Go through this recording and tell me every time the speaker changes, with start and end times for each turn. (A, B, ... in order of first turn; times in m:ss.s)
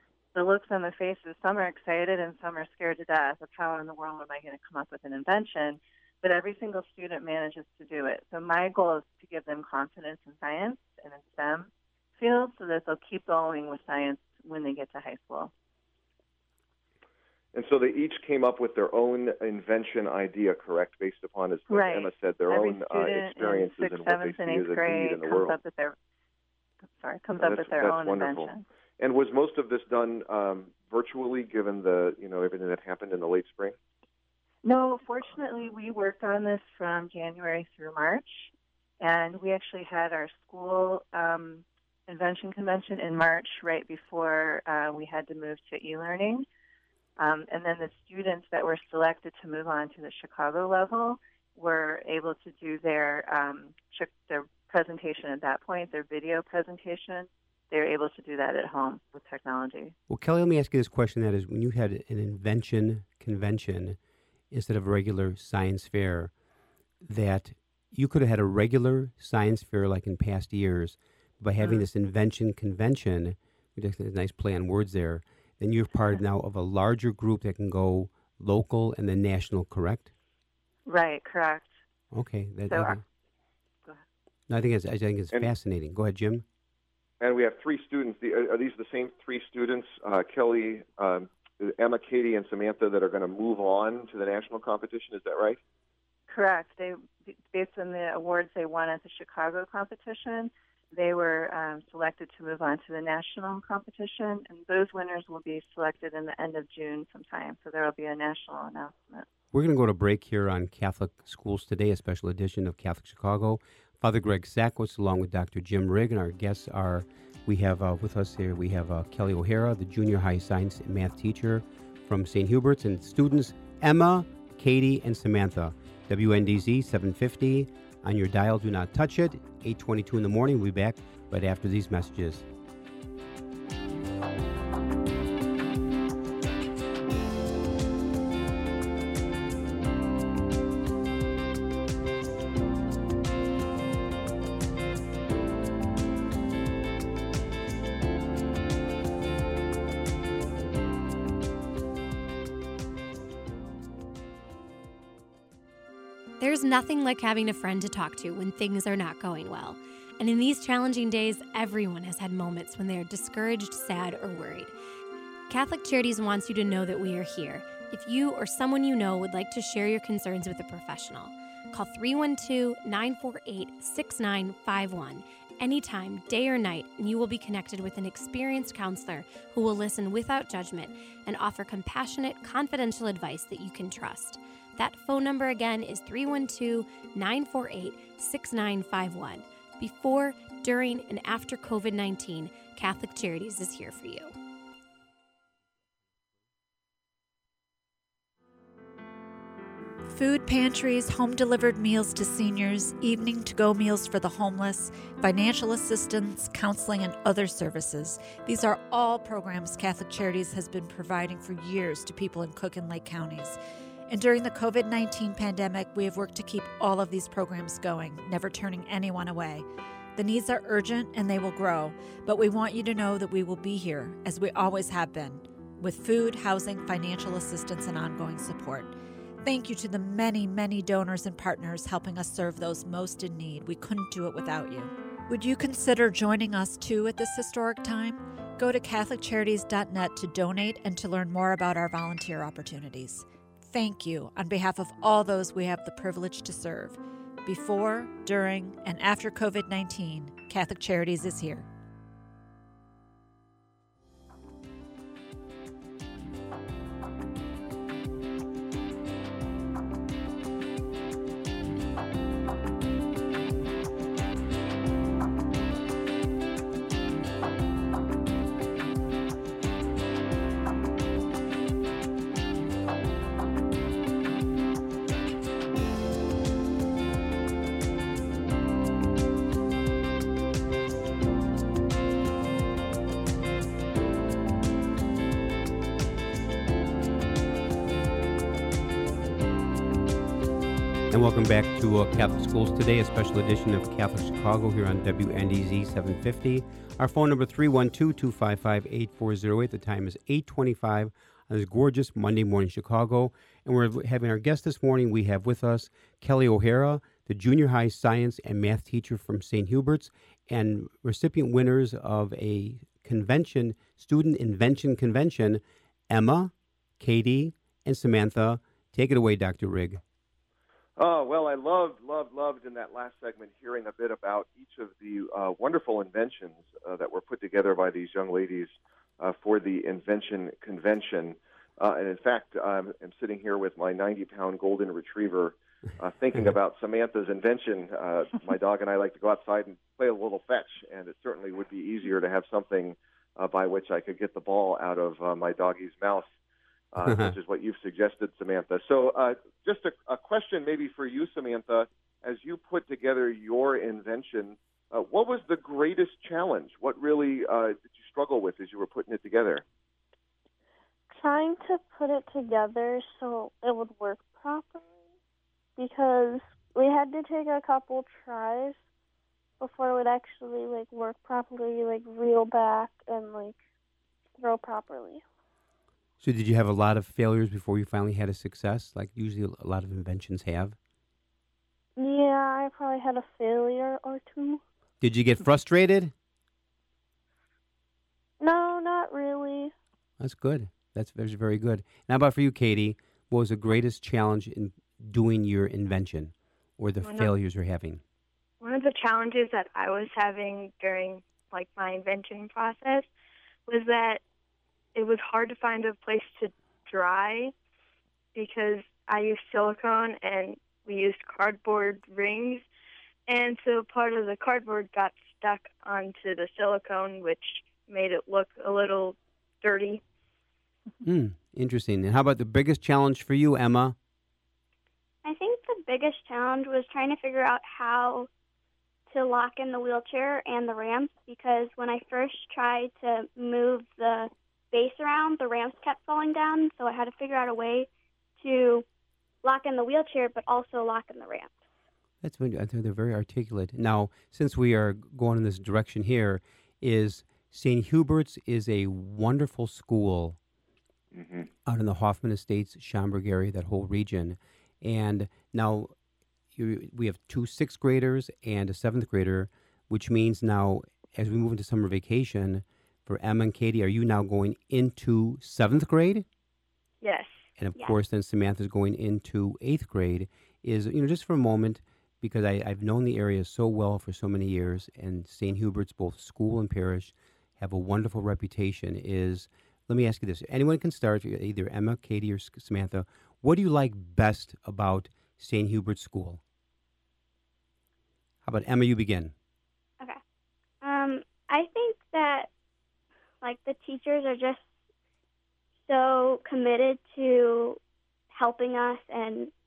0:00.3-0:15.5 A
0:17.5-0:25.6 B
0:21.7-0:26.0 A
0:26.9-0:28.6 A
0:27.4-0:33.8 B
0:34.6-0:46.4 A
0:47.2-0:59.9 A
1:00.1-1:04.0 C
1:04.5-1:06.3 C
1:07.0-1:20.1 C
1:20.8-1:21.7 A
1:22.1-1:23.0 C
1:22.7-1:23.0 A
1:24.5-1:26.4 C
1:27.2-1:35.6 B
1:36.3-1:49.2 A
1:49.5-2:12.4 C
2:36.4-2:44.7 D
2:45.5-3:14.3 D
3:20.0-4:11.7 E
4:51.1-5:20.0 C
5:21.0-5:46.3 B
5:46.9-5:59.6 B
5:47.0-5:47.4 C
6:01.1-6:05.0 F
6:05.8-6:08.8 F
6:09.6-6:13.6 F
6:14.4-6:15.2 F
6:16.2-6:20.8 C
6:22.0-6:24.6 F
6:25.0-6:26.1 C
6:28.4-6:29.7 F
6:30.2-6:38.0 C
6:37.0-6:37.3 G
6:38.6-6:43.1 G
6:43.7-6:44.2 G
6:44.9-6:47.5 G
6:48.3-6:52.6 G
6:53.3-7:00.0 G
7:01.0-7:04.0 C
7:05.2-7:08.3 H
7:09.1-7:17.9 H
7:18.4-7:18.8 H
7:19.4-7:21.6 H
7:22.2-7:30.4 C
7:31.1-7:31.5 B
7:31.6-7:35.9 C
7:36.5-7:46.2 C
7:47.0-7:47.4 G
7:47.6-8:06.4 C
8:08.4-8:09.3 C
8:10.8-8:12.5 H
8:13.4-8:14.6 H
8:15.9-8:17.8 H
8:18.3-8:19.5 H